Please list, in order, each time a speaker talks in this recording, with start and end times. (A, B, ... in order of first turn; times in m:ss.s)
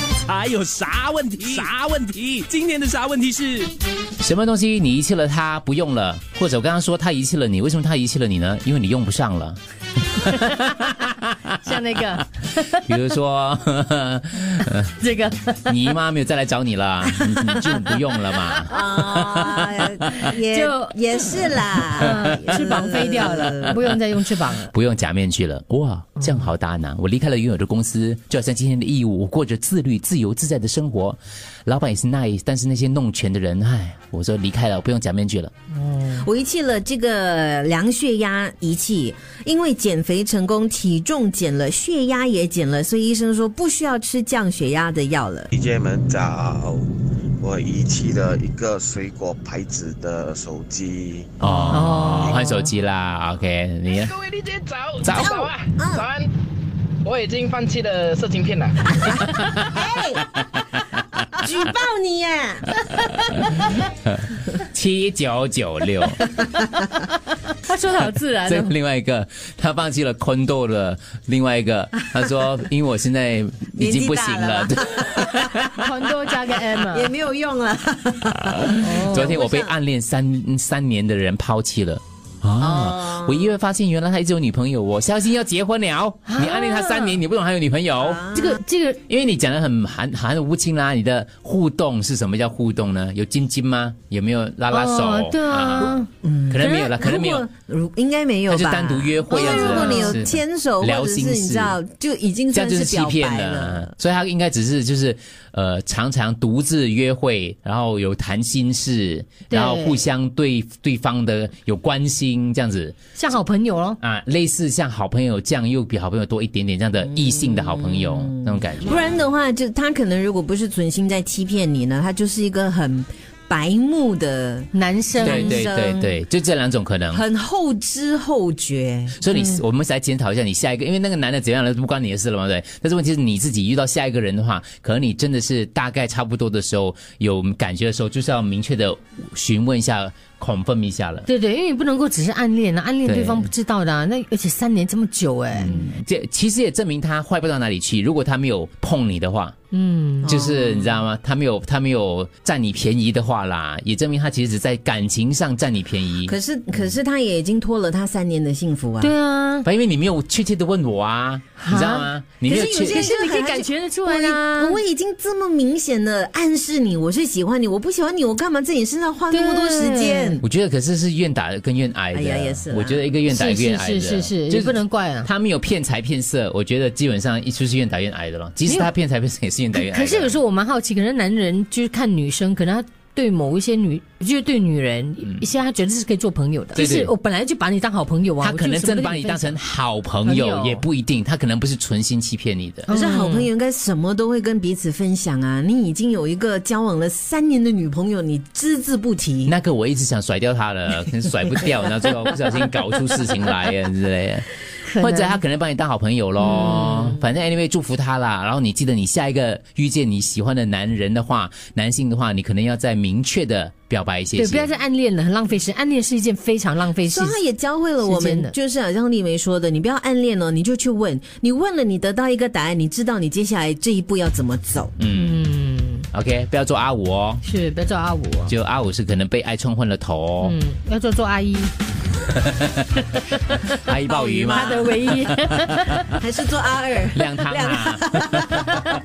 0:00.2-0:03.7 A
0:04.2-0:09.6 B
0:10.2-0:10.6 B
0:10.3-0:10.9 C
0:11.5-0:12.8 C
0:12.8-0:14.9 B
0:14.8-0:15.8 C
0:15.7-0:20.3 B
0:18.7-0:23.8 D
0:20.2-0:24.7 C
0:24.7-0:35.5 B
0:35.8-0:36.2 C
0:36.1-0:45.5 D
0:45.5-0:51.3 E
0:51.4-0:54.2 B
0:51.7-0:52.7 C
0:54.3-0:55.0 F
0:55.0-0:55.3 B
0:55.2-0:56.1 D
0:57.0-0:58.8 F
0:59.6-1:00.2 D
1:01.4-1:02.8 D
1:03.4-1:06.3 B
1:07.5-1:08.8 C
1:08.4-1:15.6 B
1:13.8-1:15.8 D
1:15.7-1:17.1 C
1:16.9-1:19.8 D
1:18.5-1:28.2 B
1:18.8-1:19.4 C
1:22.6-1:23.5 D
1:26.3-1:27.2 C
1:28.0-1:28.6 D
1:28.3-1:29.0 C
1:29.1-1:36.0 B
1:34.7-1:36.1 C
1:36.2-1:43.9 D
1:36.5-1:37.5 B
1:38.5-1:41.8 B
1:39.3-1:40.2 C
1:42.5-1:53.0 B
1:49.5-1:50.1 C
1:53.2-1:54.0 C
1:54.0-1:59.0 B
1:57.0-2:06.2 D
2:04.7-2:05.6 C
2:05.2-2:07.2 B
2:07.1-2:09.2 D
2:09.2-2:21.3 B
2:21.3-2:25.7 C
2:23.0-2:23.5 B
2:25.6-2:29.6 B
2:29.7-2:30.5 C
2:30.2-2:31.0 D
2:30.2-2:36.4 B
2:36.2-2:39.1 D
2:39.0-2:39.7 C
2:39.6-2:43.1 B
2:41.6-2:42.1 C
2:42.4-2:50.4 D
2:42.6-2:44.8 C
2:49.3-2:50.4 C
2:50.4-3:00.4 B
2:52.1-2:53.1 D
2:53.3-2:55.3 C
2:58.7-2:58.9 C
2:59.7-3:09.6 C
3:06.8-3:07.1 B
3:08.4-3:12.9 B
3:10.2-3:10.8 C
3:12.9-3:13.5 C
3:12.9-3:19.6 D
3:19.4-3:34.7 B
3:24.8-3:25.4 C
3:26.4-3:27.2 C
3:34.4-3:37.4 C
3:37.1-3:45.0 D
3:38.0-3:38.5 C
3:45.0-3:45.4 B
3:45.1-3:46.1 C
3:46.1-3:47.4 B
3:47.4-3:48.5 C
3:48.5-3:50.6 B
3:50.4-3:51.7 C
3:53.8-3:55.4 B
3:53.9-3:56.2 C
3:56.2-3:58.7 D
3:57.1-3:58.7 B